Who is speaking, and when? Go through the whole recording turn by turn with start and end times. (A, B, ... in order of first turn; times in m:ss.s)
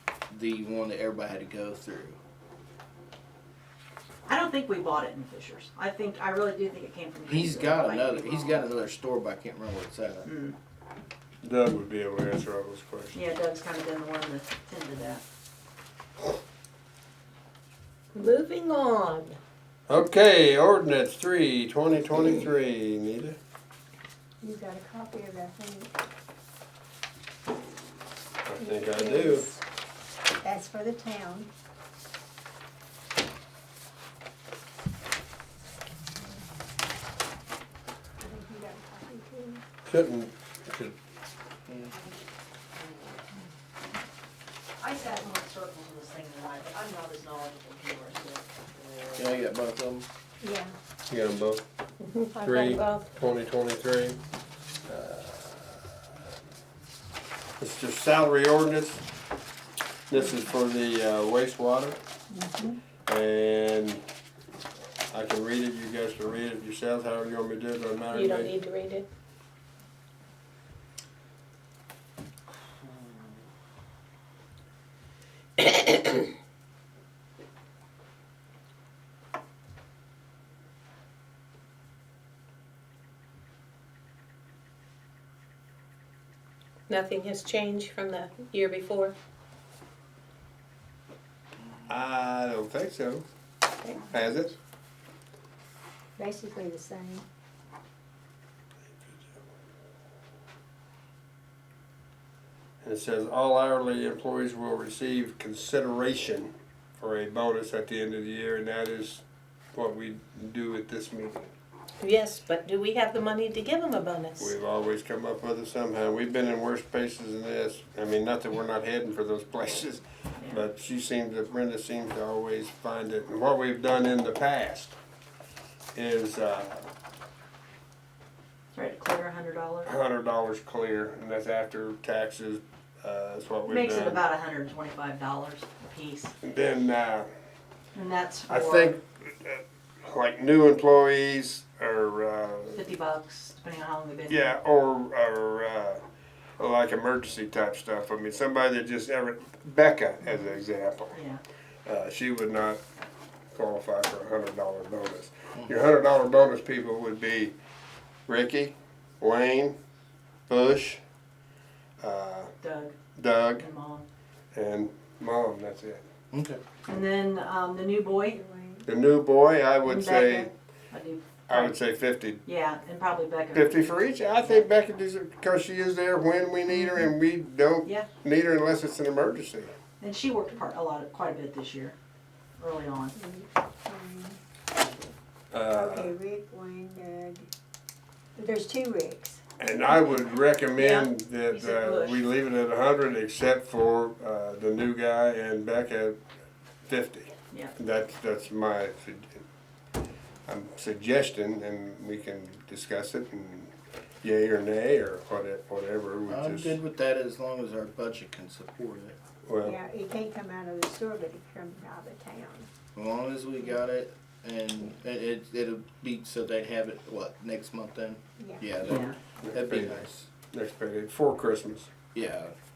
0:00.3-0:02.2 A
0:04.2-0:08.6 B
0:07.3-0:10.3 A
0:10.2-0:10.5 B
0:11.4-0:13.2 C
0:13.1-0:15.2 B
0:18.1-0:19.4 D
0:19.9-0:23.4 C
0:24.4-0:25.9 E
0:28.5-0:29.4 C
0:28.6-0:29.6 E
0:30.4-0:31.5 E
0:38.2-0:39.6 E
0:39.9-0:40.9 C
0:41.7-0:41.9 A
0:44.8-0:49.3 B
0:49.2-0:50.0 A
0:50.4-0:50.7 E
0:51.1-0:51.6 C
0:52.0-0:53.1 D
0:52.4-0:54.2 C
0:54.9-0:55.8 C
0:57.6-0:59.0 C
1:00.1-1:02.0 C
1:02.3-1:02.8 E
1:03.0-1:04.0 C
1:05.1-1:08.5 C
1:08.1-1:09.0 D
1:26.9-1:29.1 D
1:31.9-1:33.2 C
1:34.1-1:34.5 C
1:36.2-1:37.2 E
1:42.8-1:49.2 C
1:49.7-1:51.5 C
1:52.0-1:54.5 D
1:54.4-2:04.9 C
2:00.4-2:00.6 B
2:05.9-2:06.9 C
2:08.7-2:09.9 B
2:09.9-2:14.2 C
2:13.6-2:16.3 B
2:16.4-2:17.2 C
2:17.9-2:19.0 B
2:18.5-2:22.8 C
2:22.7-2:24.5 B
2:24.3-2:26.0 C
2:26.6-2:31.1 C
2:30.2-2:30.5 B
2:31.1-2:31.4 B
2:31.8-2:32.8 C
2:33.5-2:37.5 C
2:38.3-2:39.8 C
2:40.5-2:41.0 C
2:42.0-2:42.5 C
2:42.6-2:42.9 B
2:43.2-2:43.6 C
2:43.6-2:44.0 B
2:44.5-2:46.0 C
2:46.3-2:46.6 A
2:46.9-2:48.4 B
2:48.3-2:48.9 E
2:48.9-2:50.5 C
2:49.8-2:51.7 B
2:51.5-2:52.4 C
2:52.4-2:54.6 B
2:53.6-2:59.7 C
3:00.0-3:01.9 B
3:02.6-3:03.1 B
3:03.1-3:04.4 E
3:05.5-3:06.1 C
3:05.7-3:07.5 E
3:08.4-3:09.4 E
3:09.6-3:16.2 C
3:10.7-3:12.3 B
3:16.9-3:19.4 C
3:20.5-3:23.7 C
3:24.2-3:26.8 C
3:26.3-3:29.2 A
3:29.5-3:29.7 C
3:29.6-3:32.7 E
3:33.0-3:40.3 A
3:38.4-3:39.0 E
3:38.8-3:39.1 B
3:39.4-3:41.9 C
3:42.1-3:42.5 A